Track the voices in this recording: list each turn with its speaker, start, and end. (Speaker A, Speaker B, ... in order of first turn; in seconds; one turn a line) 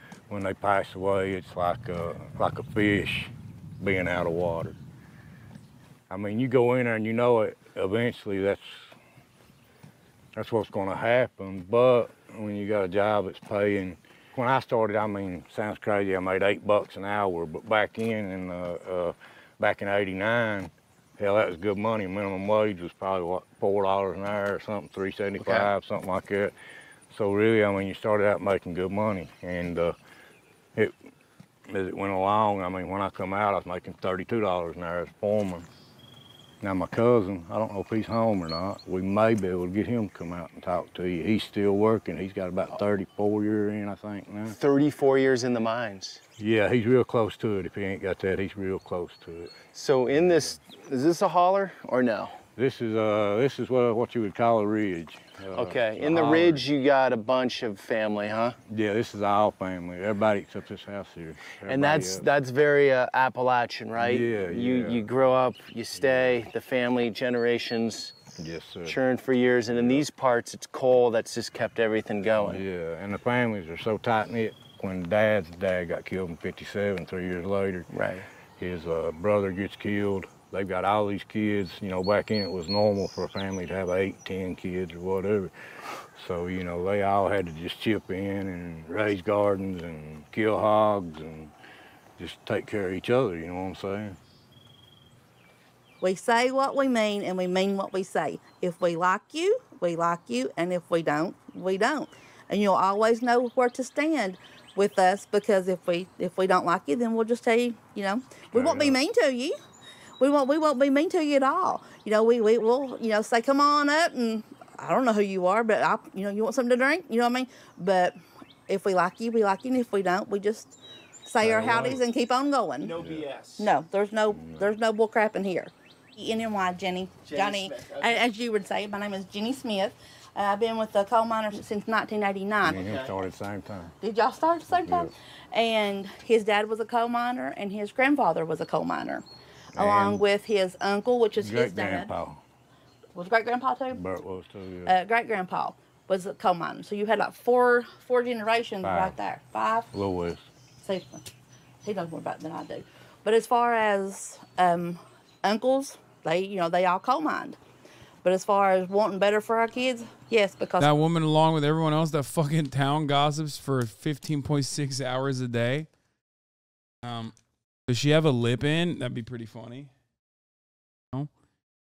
Speaker A: 0.3-4.8
Speaker A: 6.1-8.9
Speaker A: 10.3-26.5
Speaker B: 25.4-25.7
Speaker A: 27.1-29.9
Speaker A: 31.7-35.7
Speaker A: 36.6-44.6
Speaker B: 44.6-46.2
Speaker A: 46.4-49.6
Speaker B: 49.7-52.4
Speaker A: 50.1-50.6
Speaker A: 52.6-56.7
Speaker B: 55.5-58.6
Speaker A: 58.7-62.3
Speaker B: 61.7-68.2
Speaker A: 64.0-65.0
Speaker A: 66.0-66.4
Speaker A: 68.3-69.0
Speaker B: 68.9-72.6
Speaker A: 69.7-70.1
Speaker A: 72.4-77.9
Speaker B: 77.9-78.3
Speaker A: 78.6-85.5
Speaker A: 86.2-91.5
Speaker A: 92.2-94.2
Speaker C: 96.0-109.6
Speaker A: 108.5-109.0
Speaker C: 110.2-122.9
Speaker A: 121.4-122.0
Speaker B: 122.8-123.7
Speaker A: 123.0-123.3
Speaker C: 123.6-132.8
Speaker A: 124.3-124.7
Speaker B: 127.3-128.2
Speaker A: 132.6-133.9
Speaker B: 132.6-133.1
Speaker C: 134.0-139.2
Speaker A: 134.7-135.1
Speaker A: 139.8-140.2
Speaker C: 139.8-142.1
Speaker A: 141.4-142.4
Speaker C: 143.2-144.0
Speaker A: 143.9-144.9
Speaker C: 144.9-149.9
Speaker A: 148.8-149.2
Speaker A: 149.9-150.4
Speaker C: 150.8-151.2
Speaker C: 151.8-157.6
Speaker C: 158.2-160.9
Speaker D: 160.8-165.9
Speaker D: 167.0-167.3
Speaker D: 167.9-169.9